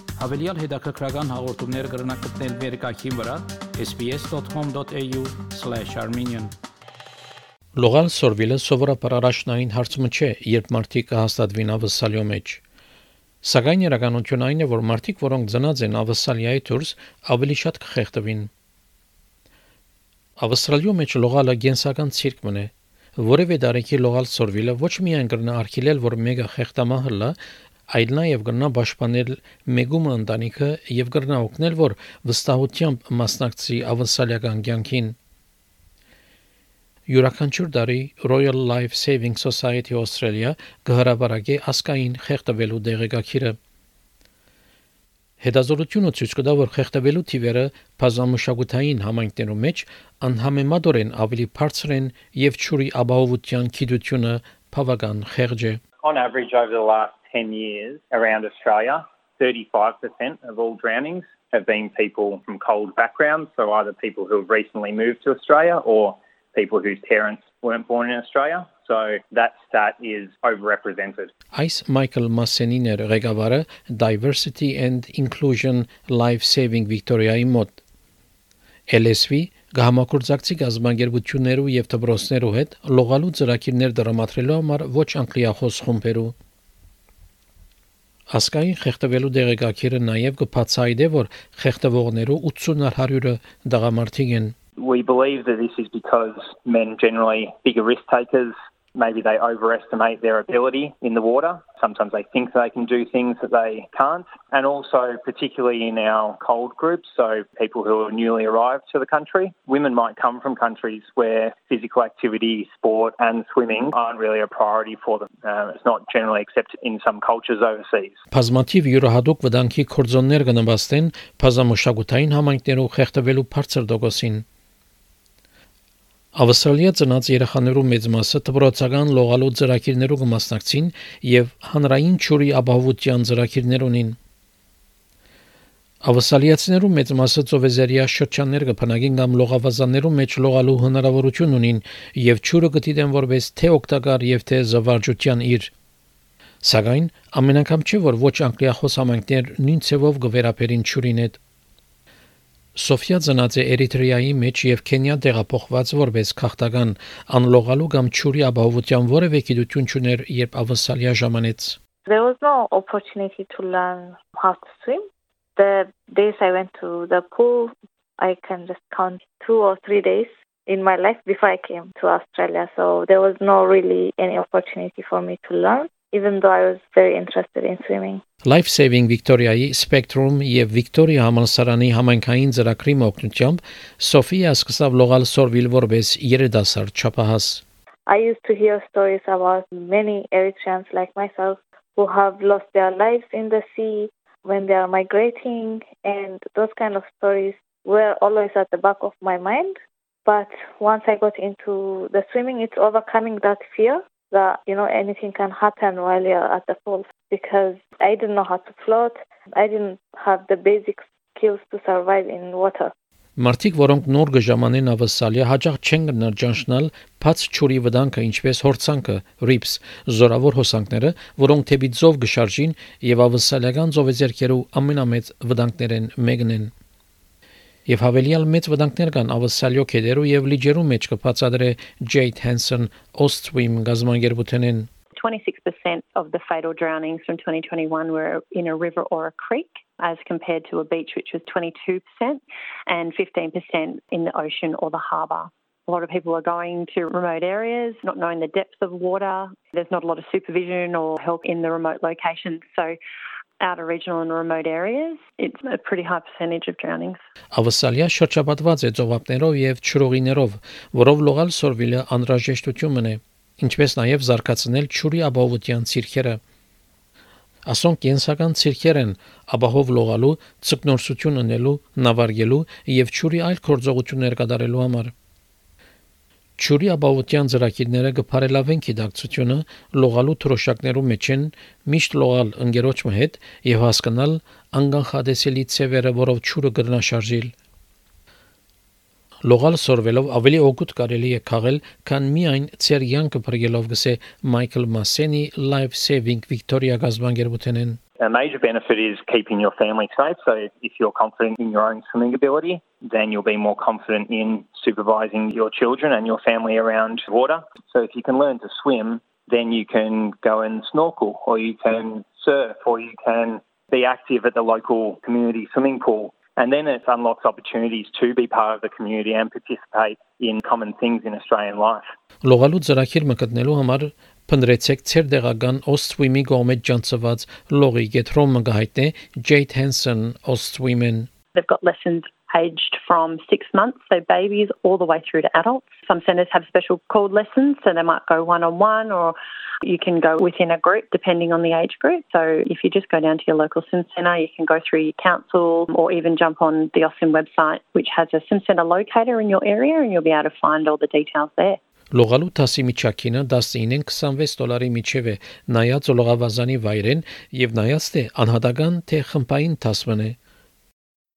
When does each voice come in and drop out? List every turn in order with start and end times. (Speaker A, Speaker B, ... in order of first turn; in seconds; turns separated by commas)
Speaker A: 0.2-6.5, Speaker B: 7.8-12.6, Speaker B: 13.4-18.5, Speaker B: 20.4-27.4, Speaker B: 27.9-35.1, Speaker B: 37.1-43.5, Speaker B: 45.4-55.8, Speaker C: 56.0-71.3, Speaker B: 71.5-77.8, Speaker B: 78.9-86.3, Speaker B: 88.3-94.5, Speaker C: 94.8-118.2, Speaker B: 118.3-124.4, Speaker B: 126.3-134.2, Speaker B: 136.0-145.7, Speaker B: 146.6-151.4, Speaker B: 152.7-161.8, Speaker D: 162.1-165.0, Speaker D: 165.6-178.2, Speaker B: 178.4-187.6, Speaker D: 188.1-212.9, Speaker B: 213.4-226.7, Speaker B: 227.9-234.9, Speaker E: 235.2-252.9, Speaker E: 253.6-257.2, Speaker B: 257.5-266.4, Speaker B: 267.6-275.1, Speaker B: 276.6-287.5, Speaker B: 289.4-298.0, Speaker C: 298.2-322.0, Speaker B: 322.4-331.3, Speaker E: 331.5-351.8, Speaker B: 352.1-360.4